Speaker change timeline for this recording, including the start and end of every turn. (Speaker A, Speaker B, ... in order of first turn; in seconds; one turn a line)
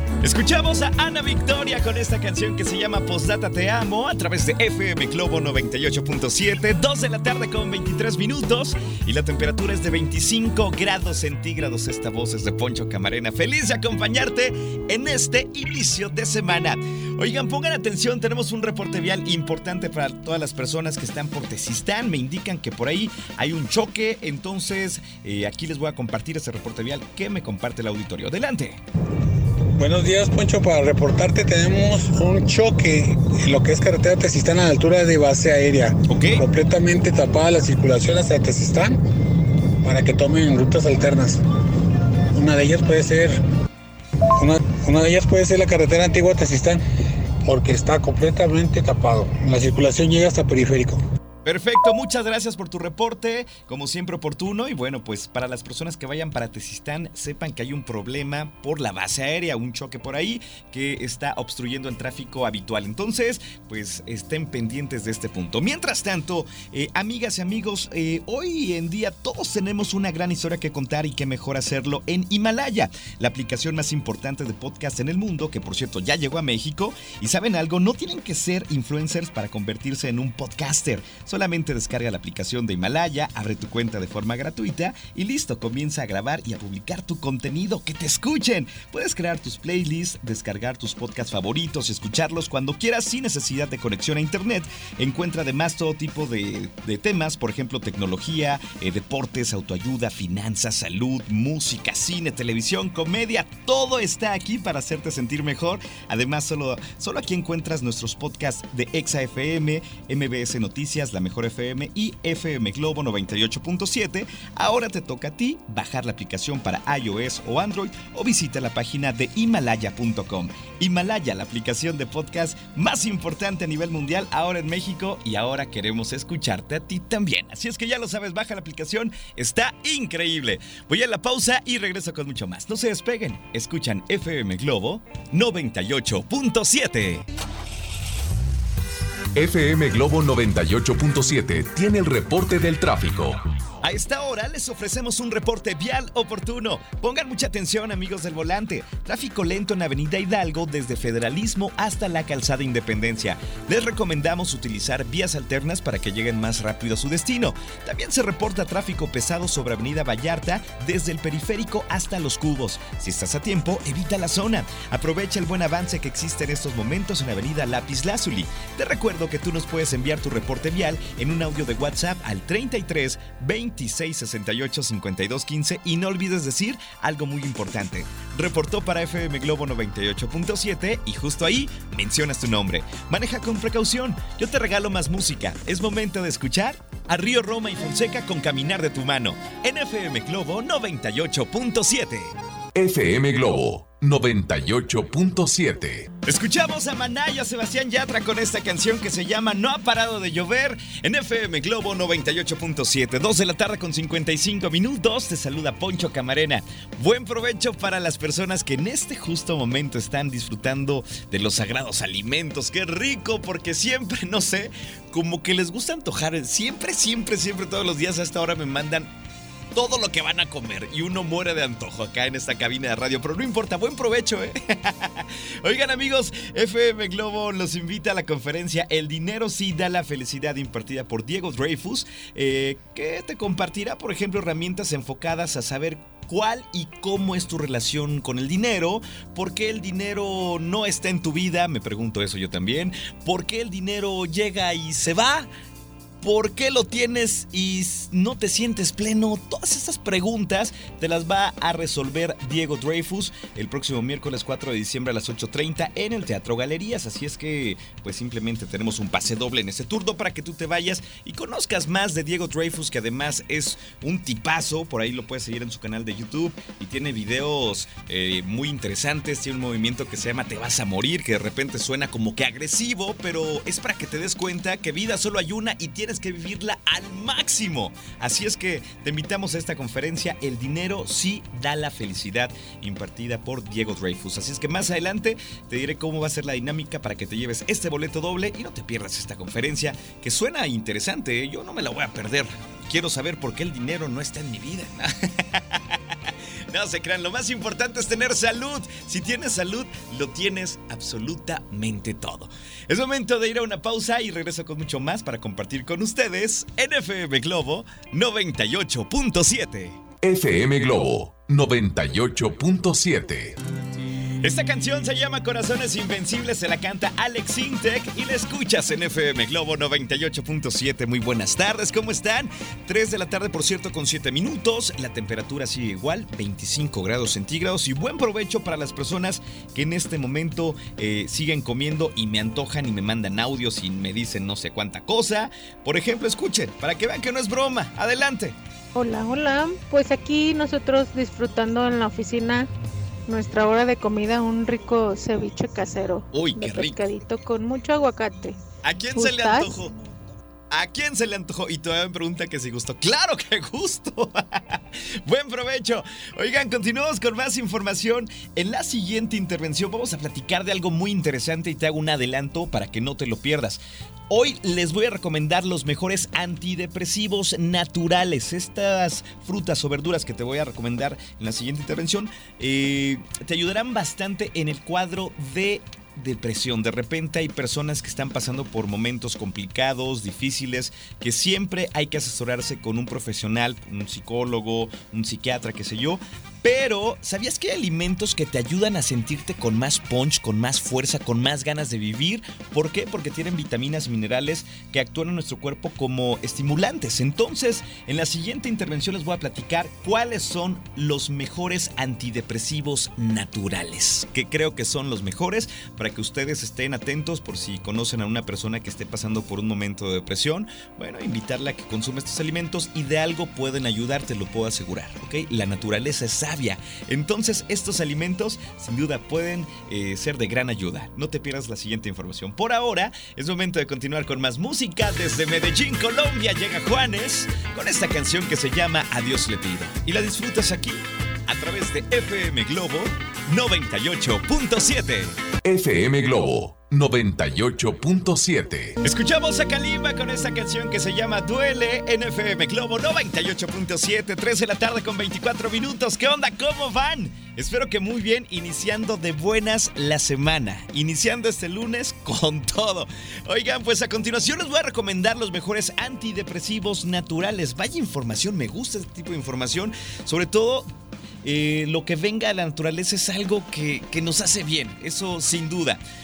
Speaker A: 0.2-28.8
Speaker B: 29.8-39.0
Speaker A: 36.1-36.4
Speaker B: 39.8-41.4
Speaker B: 42.3-43.4
Speaker B: 44.4-46.8
Speaker B: 47.4-51.0
Speaker A: 51.5-137.2
Speaker C: 139.3-143.4
Speaker A: 143.8-192.3
Speaker C: 192.8-196.1
Speaker A: 196.2-219.1
Speaker A: 219.7-245.5
Speaker A: 246.2-296.0
Speaker A: 296.7-310.0
Speaker C: 310.2-313.6
Speaker A: 314.4-338.6
Speaker D: 338.9-342.7
Speaker D: 343.3-348.6
Speaker A: 346.3-347.0
Speaker A: 348.8-349.9
Speaker D: 349.1-349.7
Speaker A: 350.7-435.4
Speaker C: 435.6-439.0
Speaker A: 439.0-460.9
Speaker A: 461.4-466.0